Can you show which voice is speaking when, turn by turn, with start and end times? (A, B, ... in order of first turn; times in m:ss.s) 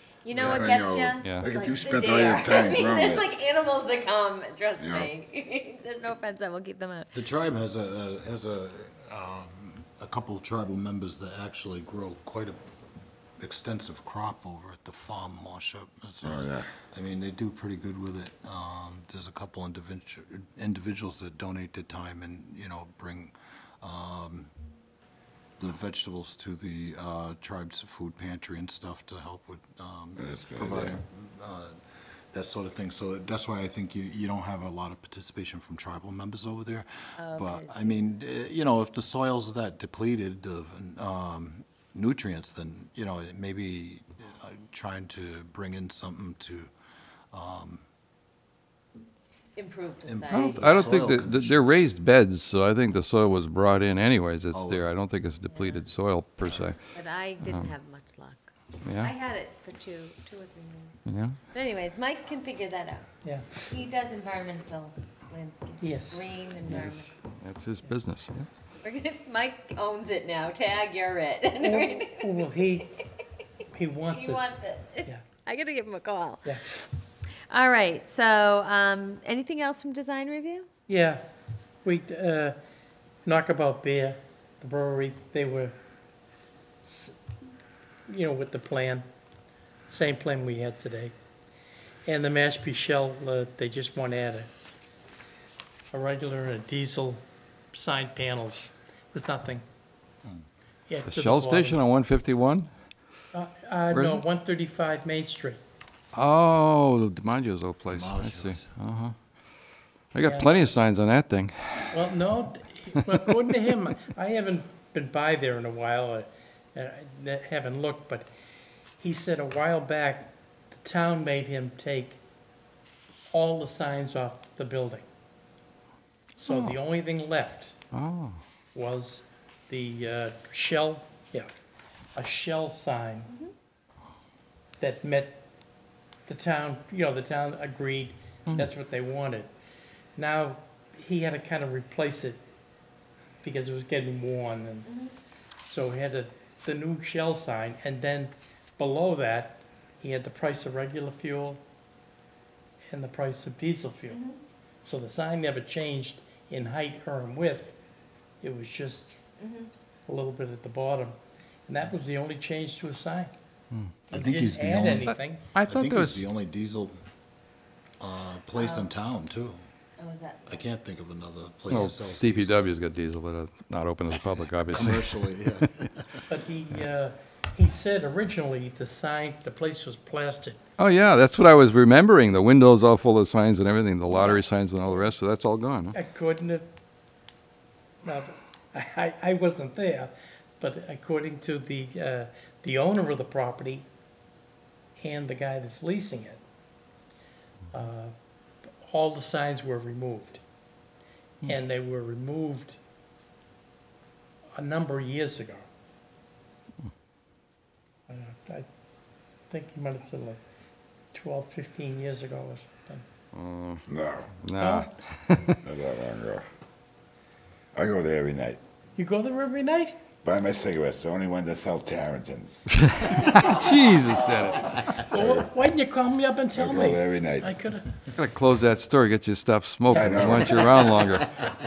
0:00.2-0:07.1 A
0:00.3-0:03.3 B
0:01.2-0:01.5 C
0:04.8-0:05.1 B
0:07.1-0:12.6 D
0:13.4-0:24.5 D
0:16.2-0:16.7 B
0:25.6-0:31.8 D
0:30.2-0:30.9 B
0:32.3-0:46.7 D
0:37.2-0:38.0 A
0:47.3-0:47.8 D
0:49.6-0:50.9 A
0:50.0-0:51.7 D
0:50.3-0:56.8 C
0:54.5-0:54.9 D
0:55.5-0:55.8 A
0:56.5-0:56.7 D
0:56.9-1:01.0 A
0:57.4-0:57.7 C
0:58.8-0:59.1 C
1:01.1-1:01.4 C
1:01.5-1:03.1 A
1:03.2-1:03.5 E
1:03.6-1:07.1 A
1:05.8-1:06.2 E
1:06.7-1:08.5 C
1:08.8-1:12.4 A
1:11.6-1:12.9 E
1:13.7-1:14.5 E
1:14.1-1:16.8 A
1:17.5-1:20.7 A
1:20.9-1:21.2 E
1:21.8-1:22.6 E
1:23.2-1:25.8 E
1:26.8-1:27.2 E
1:28.1-1:29.0 E
1:29.9-1:31.1 E
1:32.1-1:34.5 E
1:35.9-1:39.6 E
1:40.9-1:41.8 E
1:41.1-1:42.7 C
1:43.3-1:45.6 E
1:43.9-1:44.2 C
1:46.1-1:49.2 C
1:47.9-1:48.7 D
1:50.1-1:52.1 C
1:50.2-1:50.6 E
1:51.9-1:58.3 E
1:59.0-2:02.2 E
2:03.3-2:05.0 E
2:06.4-2:06.8 C
2:06.4-2:07.8 E
2:07.9-2:08.4 C
2:08.7-2:11.5 E
2:12.2-2:13.3 E
2:14.8-2:15.4 E
2:16.3-2:19.5 E
2:20.2-2:22.4 E
2:23.4-2:24.9 E
2:24.9-2:25.1 A
2:25.6-2:31.6 E
2:32.9-2:34.2 E
2:34.1-2:34.4 A
2:34.8-2:37.8 E
2:38.4-2:39.2 E
2:39.4-2:39.7 A
2:40.1-2:41.2 E
2:41.7-2:43.3 E
2:44.1-2:45.5 E
2:44.1-2:47.0 D
2:45.0-2:46.2 C
2:48.0-2:49.6 D
2:48.6-2:48.9 A
2:50.0-2:50.6 A
2:50.5-2:52.8 D
2:51.7-2:56.0 C
2:54.7-2:56.2 D
2:56.3-3:00.6 E
3:00.8-3:06.0 C
3:04.1-3:04.4 A
3:05.9-3:06.7 E
3:08.0-3:13.9 E
3:15.0-3:16.4 E
3:17.7-3:18.1 E
3:18.8-3:20.4 E
3:21.4-3:22.8 E
3:24.6-3:25.6 E
3:28.1-3:28.7 E
3:29.5-3:30.4 E
3:31.1-3:33.0 E
3:33.3-3:33.9 C
3:33.9-3:34.3 B
3:34.4-3:35.6 C
3:34.6-3:34.9 E
3:35.6-3:36.5 B
3:37.8-3:38.6 B
3:39.0-3:40.0 E
3:40.2-3:42.6 B
3:42.8-3:44.9 C
3:43.2-3:43.7 A
3:44.9-3:47.9 E
3:45.1-3:45.5 B
3:46.5-3:47.5 B
3:48.1-3:51.3 C
3:49.9-3:50.8 B